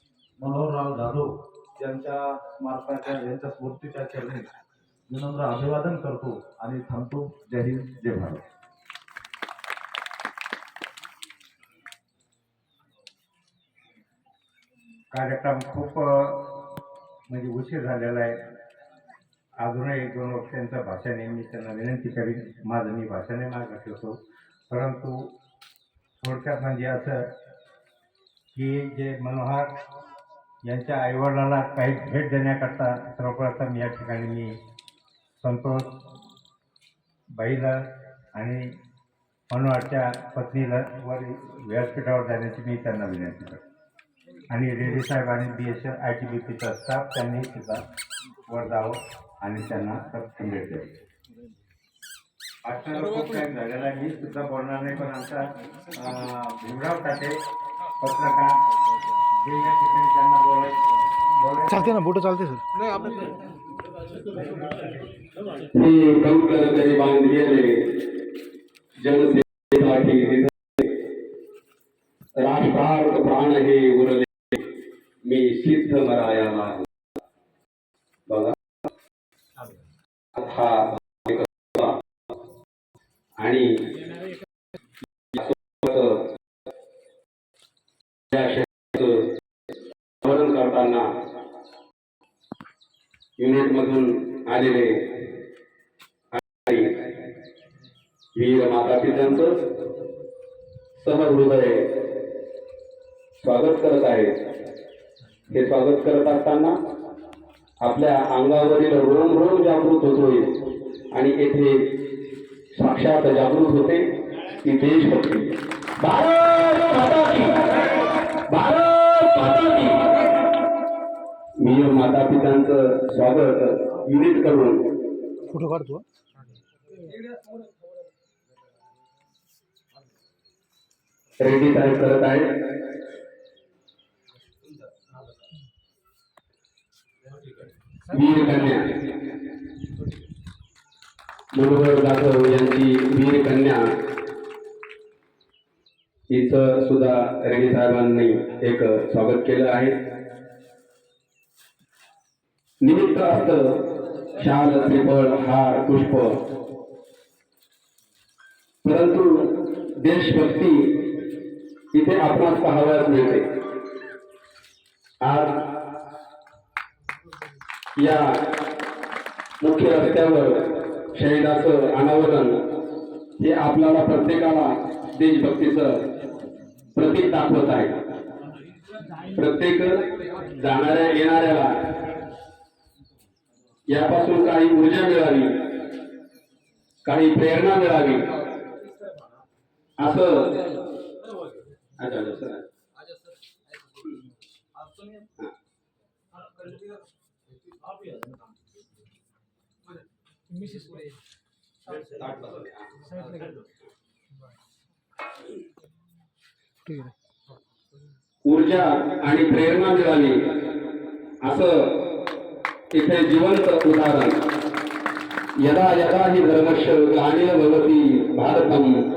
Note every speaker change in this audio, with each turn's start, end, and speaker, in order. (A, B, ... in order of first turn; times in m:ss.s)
0:00.4-0:04.5 A
0:05.1-0:08.4 A
0:15.1-0:16.5 B
0:17.3-0:18.4 B
0:19.6-0:24.2 B
0:24.7-0:25.3 B
0:26.2-0:27.3 B
0:28.5-0:29.7 B
0:30.6-0:34.6 B
0:35.4-0:35.9 B
0:37.4-0:38.7 B
0:39.5-0:43.6 B
0:44.5-0:47.8 B
0:48.5-0:50.9 B
0:52.6-0:57.4 B
0:58.0-0:58.6 B
0:59.4-1:00.8 B
1:01.4-1:02.0 B
1:01.8-1:03.3 C
1:05.7-1:07.9 D
1:09.0-1:10.9 D
1:12.4-1:14.6 D
1:15.2-1:16.9 D
1:18.3-1:18.5 D
1:20.4-1:22.0 D
1:23.4-1:23.9 D
1:25.3-1:26.3 D
1:28.3-1:29.3 D
1:30.2-1:31.1 D
1:33.4-1:35.0 D
1:36.3-1:37.0 D
1:38.4-1:39.6 D
1:41.0-1:41.9 D
1:43.4-1:44.3 D
1:45.5-1:46.8 D
1:47.8-1:50.6 D
1:51.1-1:52.0 D
1:52.7-1:54.0 D
1:54.6-2:00.1 D
2:01.6-2:04.8 D
2:05.5-2:06.0 C
2:11.4-2:12.5 D
2:18.1-2:19.0 D
2:21.5-2:23.9 D
2:26.3-2:30.0 D
2:32.8-2:33.8 D
2:34.4-2:36.4 D
2:38.8-2:41.0 D
2:41.9-2:43.4 D
2:45.2-2:45.6 D
2:48.0-2:48.5 D
2:49.6-2:52.6 D
2:53.4-2:56.1 D
2:57.0-2:58.0 D
2:59.3-3:01.9 D
3:03.9-3:05.6 D
3:07.0-3:08.3 D
3:10.0-3:10.6 D
3:12.0-3:12.7 D
3:20.6-3:20.9 C
3:22.3-3:22.6 D
3:23.1-3:23.4 C
3:26.9-3:27.1 C
3:28.5-3:30.4 D
3:31.4-3:32.0 D
3:32.9-3:34.5 D
3:35.6-3:39.0 D